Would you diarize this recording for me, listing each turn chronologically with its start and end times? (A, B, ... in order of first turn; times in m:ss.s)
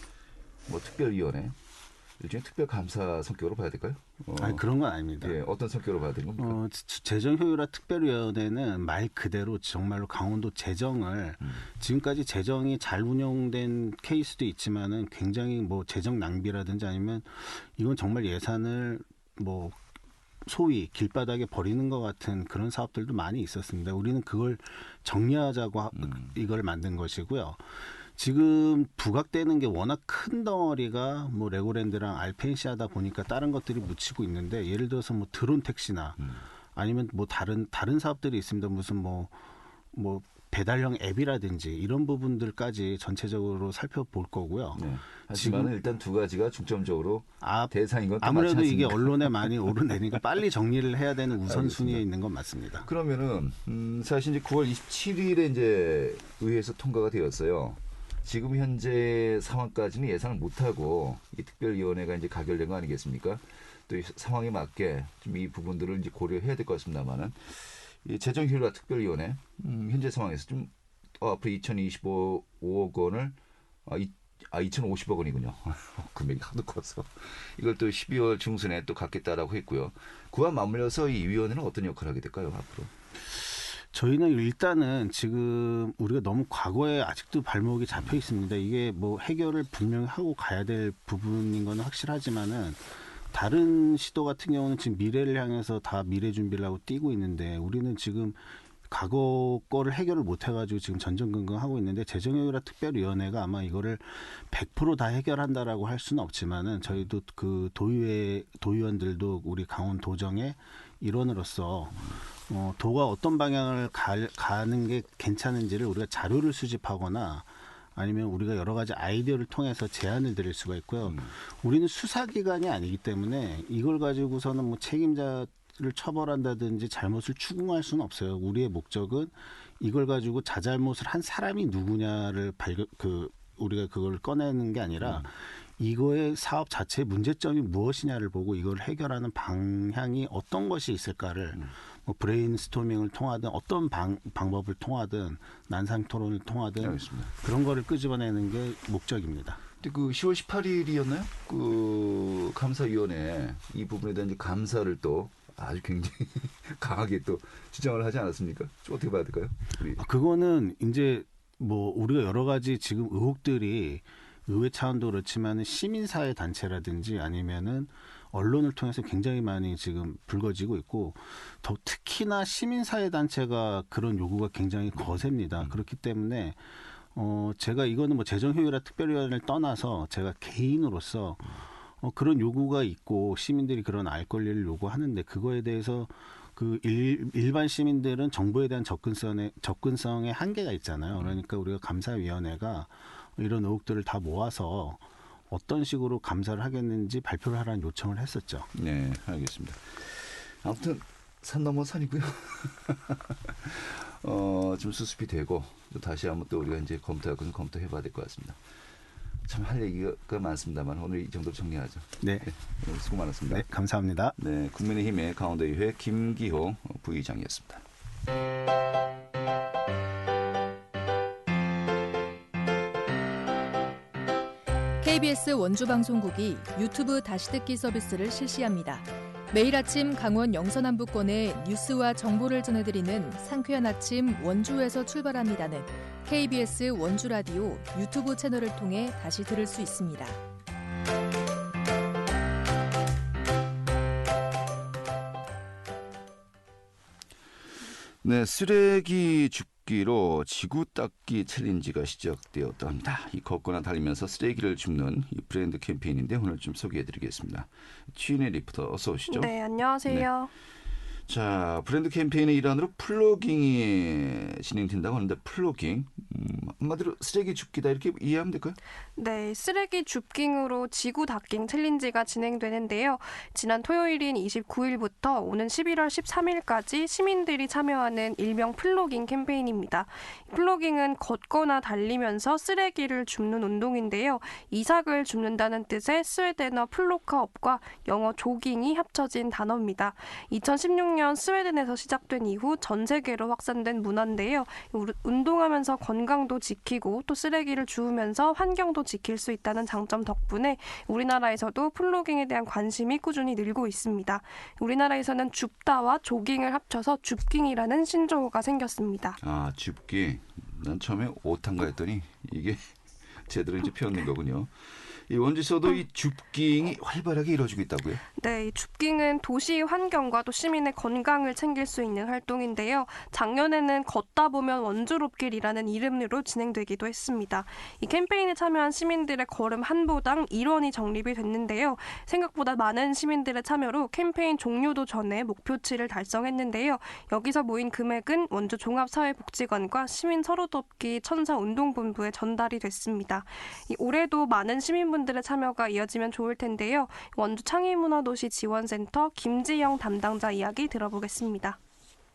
0:00.7-0:01.6 A
0:02.2-0:04.6 A
0:04.4-0:05.4 B
0:05.2-0:06.6 A
0:06.4-0:19.8 B
0:11.4-0:11.6 A
0:20.4-0:27.6 B
0:25.9-0:26.3 A
0:28.2-0:36.2 B
0:36.2-0:36.4 A
0:36.7-0:39.4 B
0:39.9-0:45.7 B
0:44.7-0:50.2 A
0:47.4-0:52.9 B
0:51.4-0:52.0 A
0:52.8-1:22.9 A
1:23.6-2:29.6 B
2:01.0-2:01.3 A
2:15.0-2:15.3 A
2:26.8-2:27.3 A
2:29.8-2:40.0 A
2:40.0-2:56.6 B
2:55.0-2:55.8 A
2:57.1-3:18.7 B
3:18.7-3:28.6 A
3:29.4-3:33.7 A
3:32.2-3:32.5 B
3:33.5-3:34.3 B
3:34.4-3:37.8 A
3:45.0-4:00.4 C
4:08.2-4:19.5 A
4:19.3-4:20.5 D
4:21.3-4:28.8 A
4:29.2-5:09.4 D
5:09.4-5:18.2 A
5:18.4-5:51.8 D